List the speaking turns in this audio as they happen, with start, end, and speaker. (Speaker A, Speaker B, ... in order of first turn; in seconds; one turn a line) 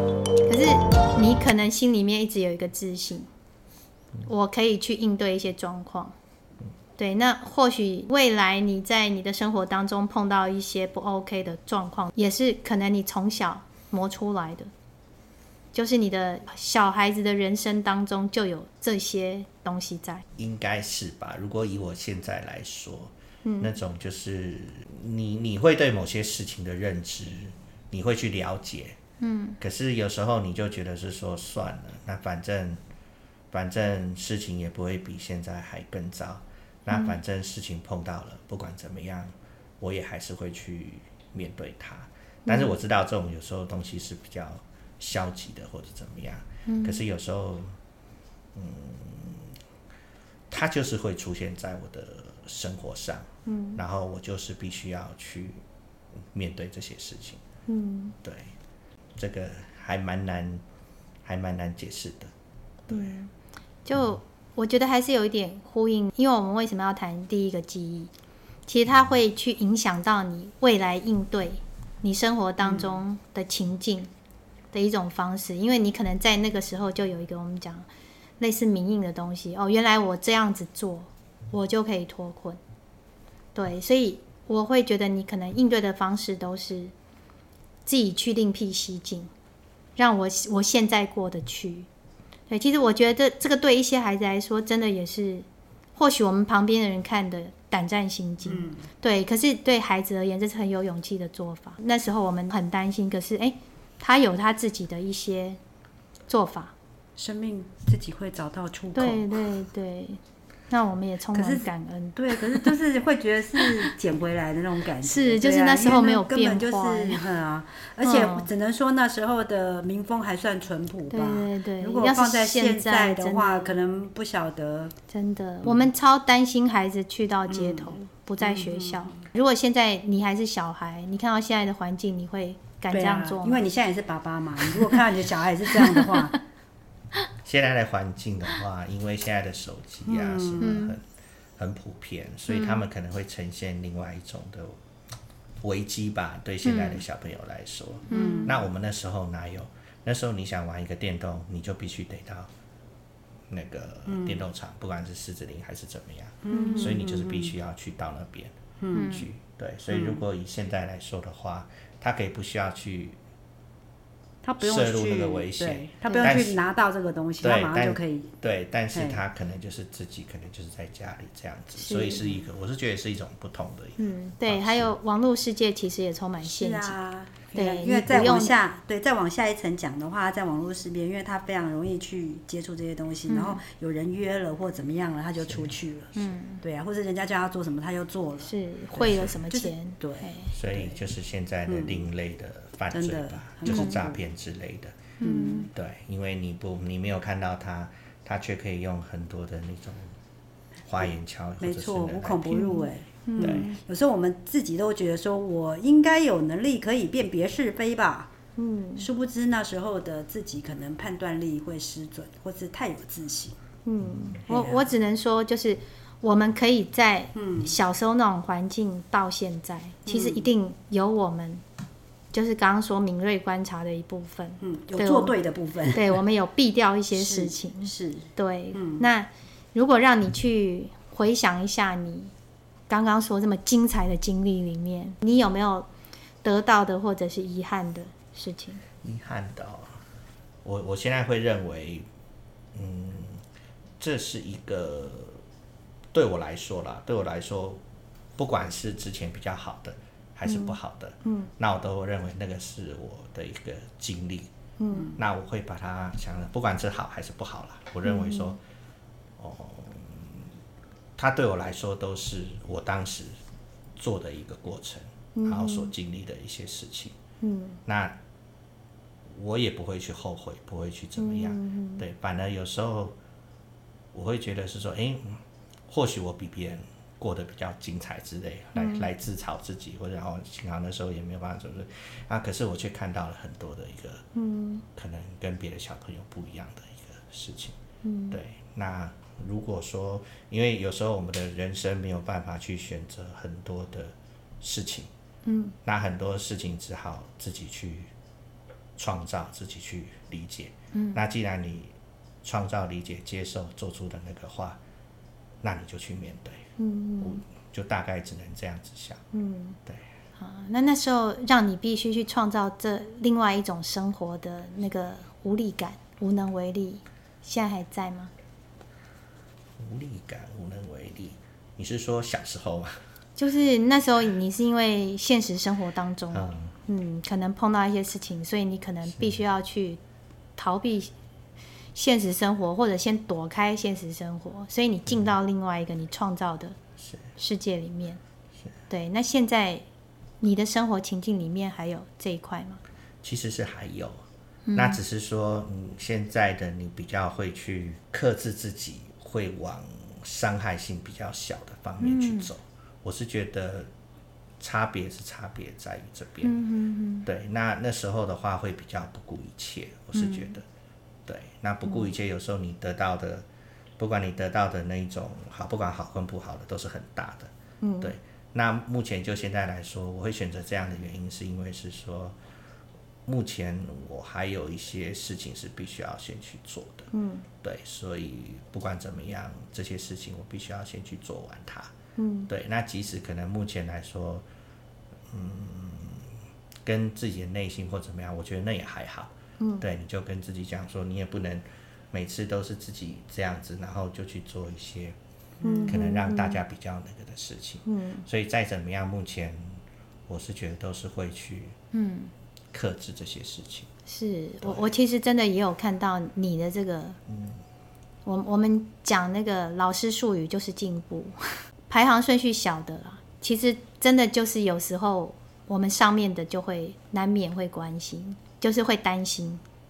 Speaker A: 0.5-3.3
Speaker A: 4.2-6.2
Speaker A: 7.0-14.7
Speaker A: 15.7-20.2
Speaker B: 20.4-29.0
Speaker A: 23.4-23.7
Speaker A: 29.2-29.6
Speaker B: 29.6-32.8
Speaker B: 33.5-47.8
Speaker A: 36.9-37.2
Speaker A: 42.5-42.7
Speaker A: 46.7-47.0
Speaker B: 48.5-49.6
Speaker B: 50.5-55.6
Speaker A: 53.5-53.8
Speaker B: 56.3-57.4
Speaker A: 57.7-58.1
Speaker B: 58.2-58.5
Speaker B: 59.2-60.6
Speaker B: 61.2-62.3
Speaker B: 62.9-63.2
Speaker A: 62.9-63.3
Speaker A: 63.9-68.1
Speaker A: 68.7-74.1
Speaker C: 72.6-73.0
Speaker A: 74.7-77.9
Speaker A: 78.4-82.6
Speaker A: 83.5-86.9
Speaker A: 87.9-89.3
Speaker A: 90.0-91.9
Speaker A: 92.5-95.5
Speaker A: 96.0-105.6
Speaker C: 98.5-98.8
Speaker A: 106.3-106.7
Speaker C: 107.2-109.3
Speaker A: 109.0-110.2
Speaker A: 110.7-112.7
Speaker C: 111.3-125.0
Speaker A: 115.0-117.2
Speaker A: 118.0-118.5
Speaker A: 121.1-123.8
Speaker A: 125.1-133.6
Speaker C: 127.5-129.2
Speaker C: 132.9-136.4
Speaker A: 134.7-135.0
Speaker A: 135.9-136.4
Speaker B: 137.4-141.0
Speaker C: 140.1-140.8
Speaker A: 140.6-141.0
Speaker B: 141.6-144.8
Speaker A: 142.5-142.8
Speaker B: 145.6-152.5
Speaker A: 146.6-147.0
Speaker C: 148.1-148.5
Speaker A: 148.1-148.5
Speaker B: 153.5-158.6
Speaker C: 154.1-154.4
Speaker C: 156.4-157.5
Speaker A: 156.5-157.0
Speaker C: 158.8-159.2
Speaker A: 158.9-159.3
Speaker B: 159.1-163.2
Speaker C: 159.9-160.2
Speaker C: 164.4-168.3
Speaker B: 164.6-166.6
Speaker A: 166.1-166.4
Speaker B: 167.4-174.9
Speaker C: 168.9-169.2
Speaker A: 171.8-172.2
Speaker A: 174.0-177.0
Speaker C: 176.4-191.0
Speaker A: 177.6-178.5
Speaker A: 183.3-183.6
Speaker A: 186.2-186.6
Speaker A: 188.4-190.5
Speaker B: 190.5-195.0
Speaker C: 191.7-192.0
Speaker C: 192.9-194.2
Speaker A: 193.7-194.0
Speaker A: 195.2-195.7
Speaker C: 195.2-195.6
Speaker B: 195.7-200.2
Speaker B: 200.9-202.8
Speaker C: 201.6-208.3
Speaker A: 202.6-203.8
Speaker B: 203.4-203.7
Speaker A: 208.6-209.1
Speaker C: 209.0-213.6
Speaker A: 213.8-221.6
Speaker C: 214.5-214.9
Speaker C: 217.3-217.7
Speaker C: 220.1-220.5
Speaker A: 222.3-225.3
Speaker C: 224.6-226.2
Speaker A: 225.9-232.3
Speaker C: 227.1-229.1
Speaker A: 232.9-235.9
Speaker A: 236.4-238.8
Speaker B: 239.0-240.0
Speaker B: 240.6-242.1
Speaker B: 242.7-243.4
Speaker B: 244.0-245.4
Speaker B: 246.1-247.8
Speaker B: 248.4-254.5
Speaker A: 250.5-251.5
Speaker A: 254.8-255.1
Speaker B: 255.2-258.6
Speaker A: 258.0-258.6
Speaker B: 259.4-260.5
Speaker B: 261.2-263.4
Speaker B: 264.0-267.2
Speaker A: 265.4-265.9
Speaker A: 267.4-267.8
Speaker B: 267.9-268.2
Speaker B: 269.3-273.2
Speaker A: 271.2-272.0
Speaker B: 274.1-284.2
Speaker A: 278.8-279.1
Speaker A: 284.4-284.8
Speaker B: 284.9-287.8
Speaker A: 288.0-288.4
Speaker B: 288.3-295.1
Speaker A: 295.5-295.8
Speaker B: 295.8-298.1
Speaker B: 299.0-304.8
Speaker A: 300.9-301.2
Speaker B: 305.6-306.6
Speaker A: 306.8-307.4
Speaker B: 307.2-309.2
Speaker A: 309.3-309.8
Speaker A: 310.4-318.3
Speaker B: 319.8-323.0
Speaker A: 323.4-330.0
Speaker B: 326.3-326.7
Speaker A: 330.6-331.1
Speaker A: 331.9-336.8
Speaker A: 337.4-338.2
Speaker A: 338.9-339.9
Speaker A: 340.4-342.8
Speaker B: 343.2-344.2
Speaker A: 344.7-345.0
Speaker B: 344.8-353.9
Speaker A: 352.0-352.5
Speaker B: 354.6-356.5
Speaker A: 356.4-357.3
Speaker B: 357.2-360.6
Speaker A: 360.1-360.5
Speaker B: 361.3-363.5
Speaker B: 364.0-372.4
Speaker A: 367.8-368.1
Speaker B: 373.2-377.1
Speaker A: 377.1-377.5
Speaker B: 377.6-381.9
Speaker A: 382.2-382.5
Speaker B: 382.5-384.5
Speaker B: 385.3-386.3
Speaker B: 386.8-395.2
Speaker A: 389.6-389.9
Speaker C: 395.6-396.0
Speaker A: 395.6-396.6
Speaker B: 395.9-401.8
Speaker A: 397.9-398.3
Speaker A: 401.9-402.3
Speaker B: 402.7-403.9
Speaker A: 404.1-407.2
Speaker B: 407.3-407.6
Speaker A: 408.3-411.4
Speaker A: 411.9-419.6